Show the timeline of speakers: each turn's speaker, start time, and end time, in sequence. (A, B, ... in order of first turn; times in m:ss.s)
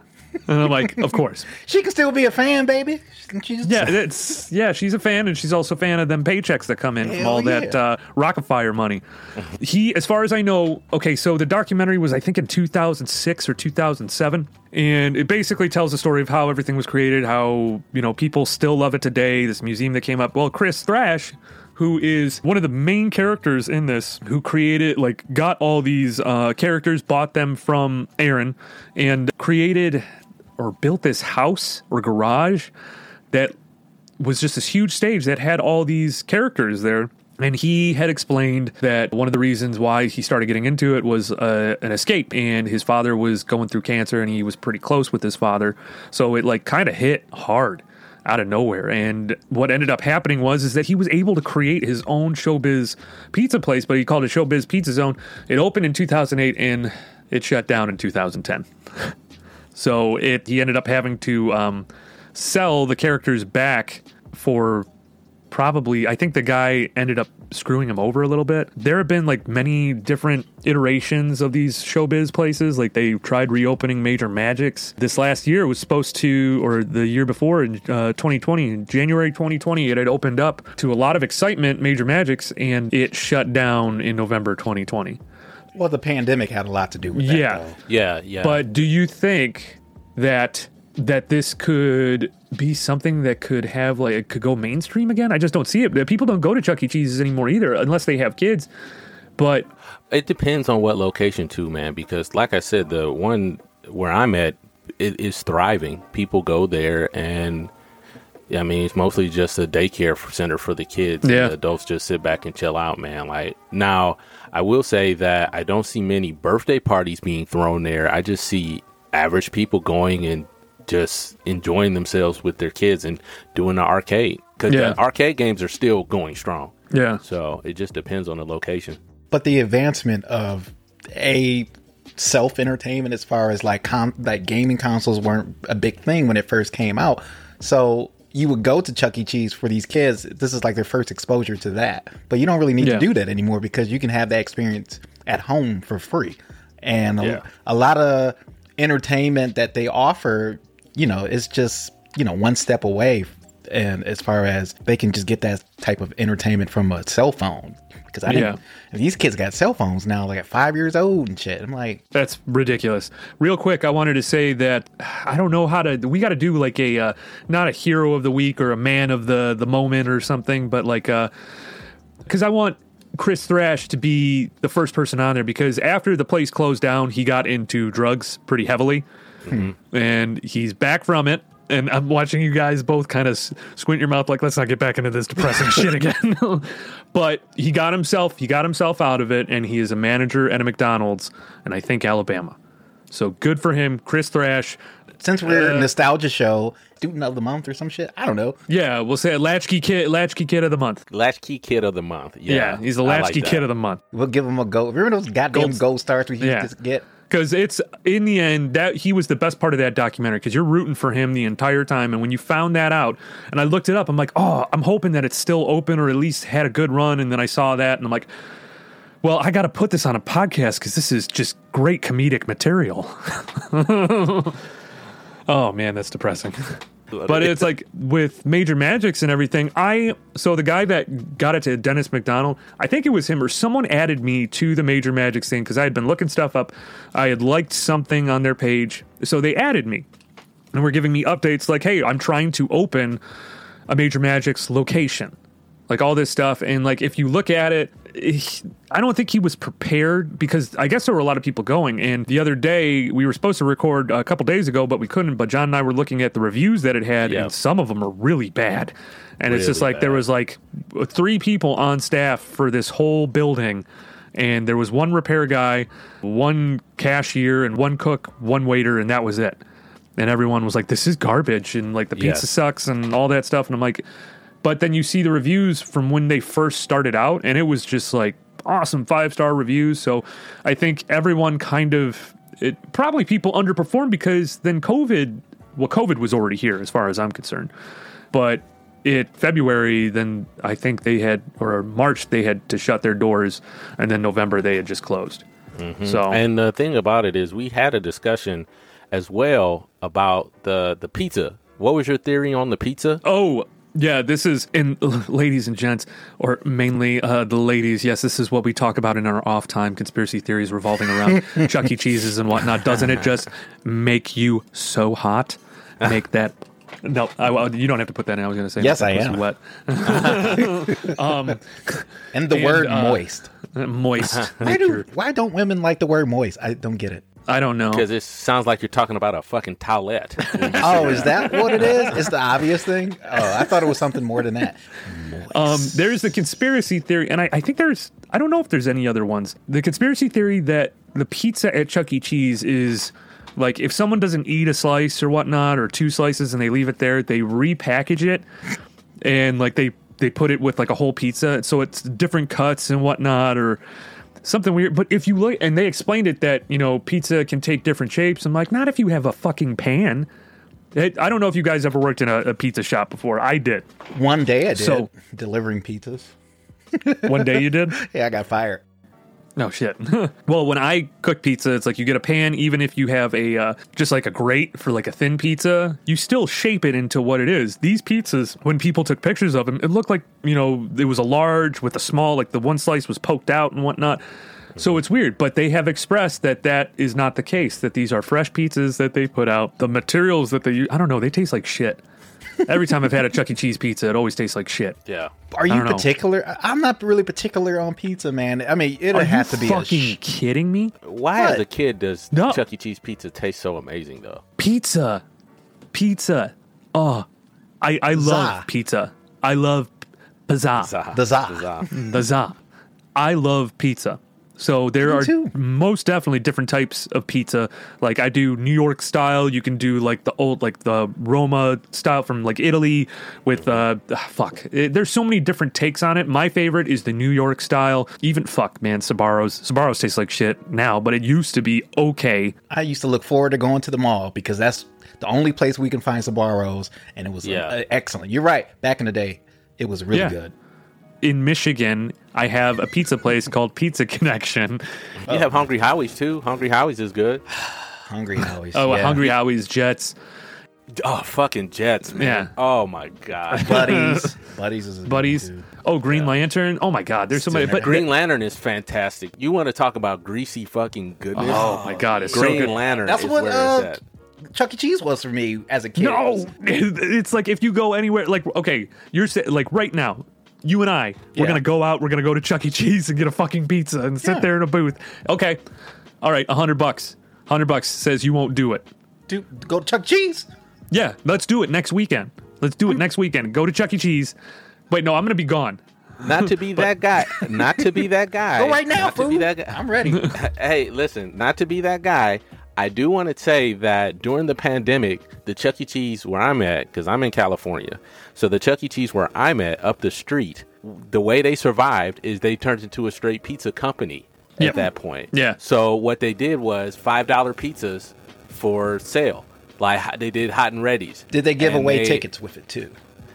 0:00.5-0:01.5 A
0:00.8-0:04.0 B
0:03.6-0:30.0 A
0:07.0-0:07.8 B
0:30.6-0:32.7 A
0:34.2-0:59.1 A
0:59.8-1:04.9 A
1:05.5-1:25.2 A
1:25.7-1:27.8 B
1:27.2-1:27.6 A
1:27.9-1:28.6 C
1:28.4-1:38.7 A
1:39.4-1:39.7 A
1:40.1-1:47.7 C
1:48.5-2:09.0 C
1:51.2-1:51.5 A
2:04.7-2:05.0 A
2:06.9-2:07.2 A
2:09.3-2:42.0 B
2:22.8-2:23.1 A
2:38.3-2:38.6 A
2:42.1-2:51.3 A
2:52.3-2:59.0 A
2:59.9-3:12.6 A
3:13.1-3:14.8 A
3:15.2-3:18.6 B
3:15.4-3:15.9 A
3:18.7-3:21.0 A
3:21.1-3:23.6 C
3:22.5-3:24.0 A
3:24.1-3:27.1 B
3:25.5-3:25.8 A
3:26.4-3:26.7 A
3:27.3-3:38.3 A
3:39.2-3:44.6 A
3:45.5-4:00.1 A
3:47.1-3:47.6 C
4:00.7-4:03.2 A
4:03.9-4:05.4 A
4:05.9-4:23.8 A
4:17.3-4:17.5 C
4:19.5-4:20.2 C
4:24.4-4:29.6 A
4:30.2-4:34.0 A
4:32.2-4:32.4 C
4:34.6-4:47.7 A
4:48.3-4:55.4 A
4:55.8-5:03.2 C
4:56.0-4:56.4 A
5:03.2-5:25.0 A
5:18.8-5:19.4 B
5:20.3-5:21.2 B
5:22.3-5:23.5 B
5:24.6-5:27.2 B
5:27.5-5:28.1 A
5:27.9-5:31.9 C
5:30.6-5:32.1 A
5:30.8-5:36.1 B
5:35.5-5:48.4 A
5:49.2-5:53.8 A
5:54.4-6:00.3 A
6:00.9-6:03.9 A
6:04.1-6:06.3 B
6:04.8-6:05.1 A
6:06.9-6:08.8 B
6:07.2-6:08.0 A
6:09.6-6:24.2 A
6:24.8-6:32.0 A
6:32.6-6:35.0 A
6:35.1-6:35.3 C
6:35.5-6:40.2 B
6:35.7-6:36.1 A
6:39.1-6:41.0 A
6:41.0-6:44.4 C
6:41.4-6:41.6 B
6:42.3-6:42.6 A
6:44.6-6:45.2 A
6:45.9-6:47.3 A
6:47.8-6:50.0 A
6:48.1-6:48.7 B
6:50.5-6:50.9 A
6:50.8-6:51.9 C
6:51.1-6:51.8 B
6:51.9-6:52.6 A
6:53.2-7:12.5 A
6:55.0-6:55.5 B
7:12.7-7:20.5 B
7:17.4-7:17.8 C
7:20.1-7:20.4 A
7:21.2-7:24.8 A
7:25.3-7:27.4 C
7:25.3-7:25.6 B
7:27.6-7:29.3 B
7:28.7-7:30.2 A
7:31.0-7:34.0 C
7:32.2-7:32.5 A
7:33.5-7:34.3 A
7:33.6-7:35.7 B
7:35.1-7:38.0 A
7:37.3-7:38.1 B
7:37.7-7:44.0 C
7:41.4-7:42.7 A
7:41.4-7:44.0 B
7:44.5-7:46.5 B
7:46.0-7:55.6 A
7:51.4-7:51.6 B
7:54.2-7:54.5 B
7:56.2-7:58.9 A
7:59.3-8:00.5 B
8:00.9-8:04.4 A
8:04.9-8:05.8 A
8:06.2-8:32.2 C
8:08.6-8:10.4 B
8:25.3-8:25.6 A
8:31.3-8:33.0 B